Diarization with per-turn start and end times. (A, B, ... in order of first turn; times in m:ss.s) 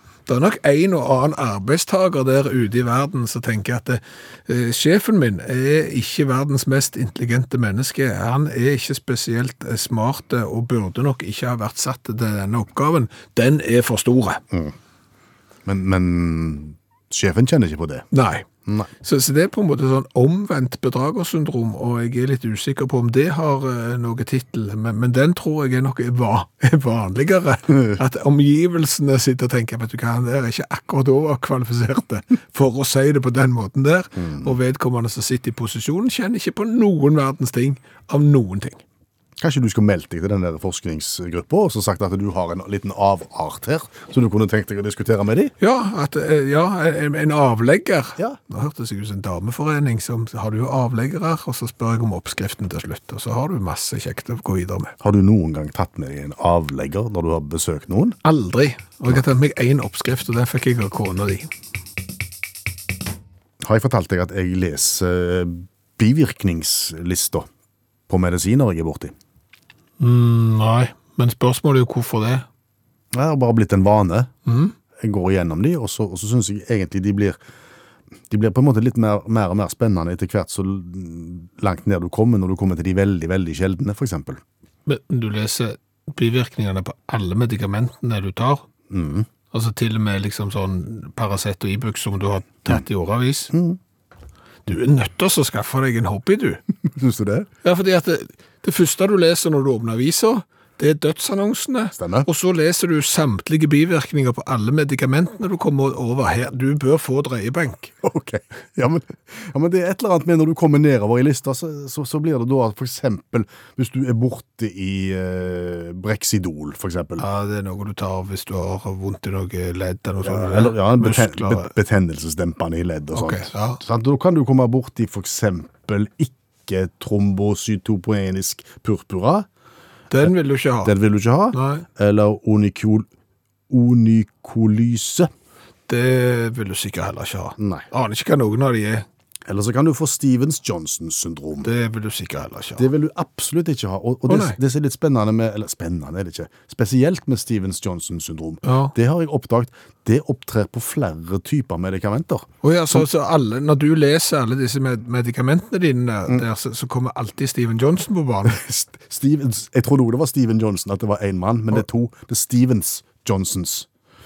0:00.3-0:14.4 A
0:15.6-0:18.0 B
0:18.1-0:18.5 A
0:19.0-0:38.8 A
0:34.2-0:34.5 B
0:39.4-0:45.5 B
0:45.6-0:54.9 A
0:55.0-0:58.2 B
0:58.2-1:01.5 A
1:03.6-1:07.5 B
1:08.1-1:09.1 B
1:10.0-1:12.4 A
1:13.1-1:14.3 B
1:14.5-1:14.7 A
1:15.0-1:17.4 B
1:18.3-1:24.4 B
1:24.8-1:28.6 A
1:28.9-1:29.3 B
1:29.5-1:33.5 A
1:33.5-1:33.8 B
1:34.6-1:36.6 A
1:36.9-1:37.5 B
1:37.6-1:47.9 A
1:41.9-1:42.3 B
1:48.0-1:57.2 B
1:57.2-2:01.7 A
2:00.2-2:09.5 B
2:03.1-2:03.8 A
2:10.1-2:10.9 A
2:10.8-2:13.1 B
2:11.5-2:11.8 A
2:13.7-2:15.3 B
2:15.9-2:19.0 A
2:17.6-2:17.9 B
2:19.4-2:21.7 B
2:21.6-2:22.8 A
2:22.8-2:33.0 B
2:24.3-2:24.6 A
2:28.6-2:28.9 A
2:32.6-2:38.6 A
2:38.4-2:43.9 B